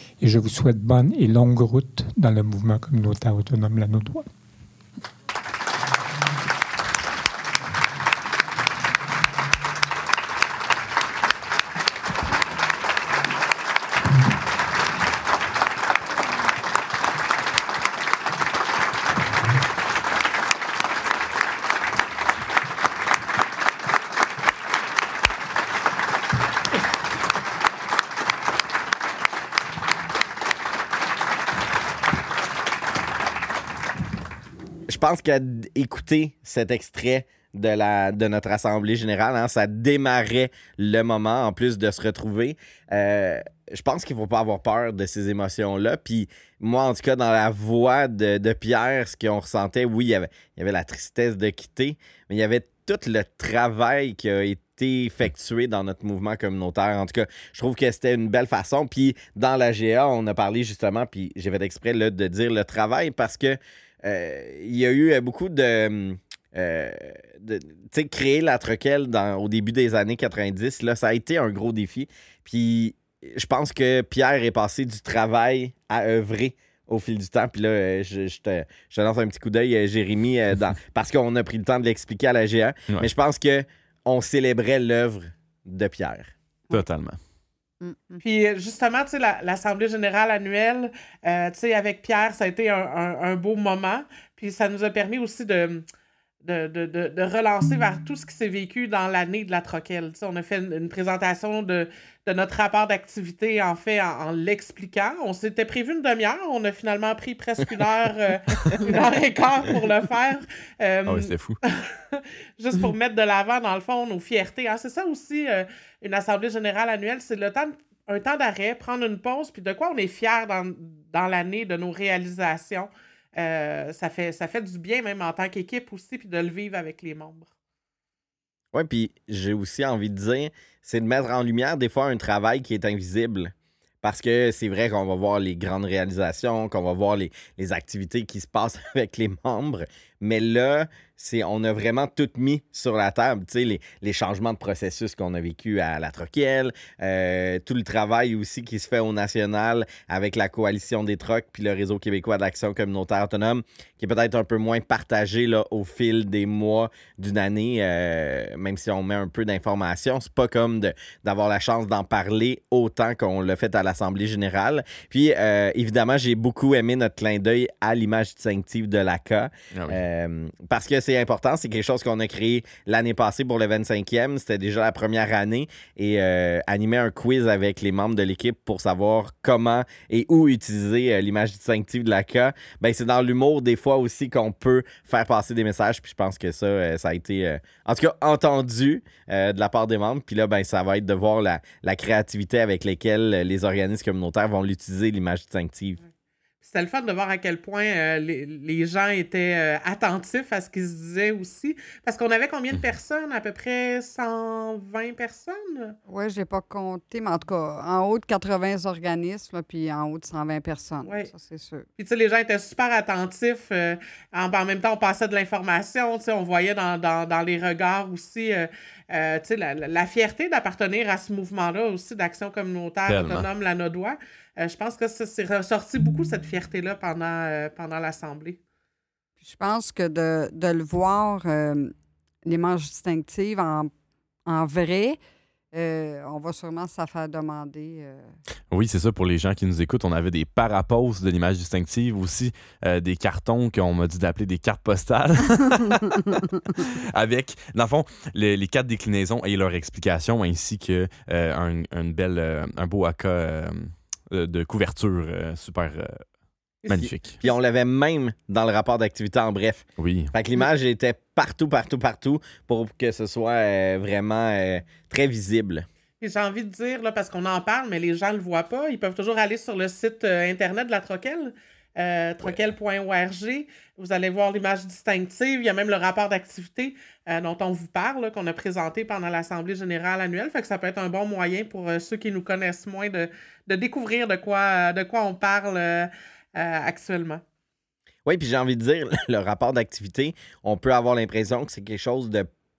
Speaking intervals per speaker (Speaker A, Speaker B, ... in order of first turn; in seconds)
Speaker A: 0.2-4.2
Speaker B: 34.9-86.3, 128.7-196.0, 257.0-265.9, 288.2-292.5
Speaker C: 86.7-87.2, 111.1-111.6, 169.7-170.0, 223.1-223.5, 238.7-256.2, 256.9-257.4, 260.0-260.3
Speaker D: 87.8-88.2, 206.1-211.9, 229.4-231.9, 232.4-233.9, 234.4-235.2, 235.7-238.3
Speaker E: 88.2-95.8, 96.4-127.5, 196.6-205.9, 212.0-228.6, 256.9-257.6, 266.2-287.4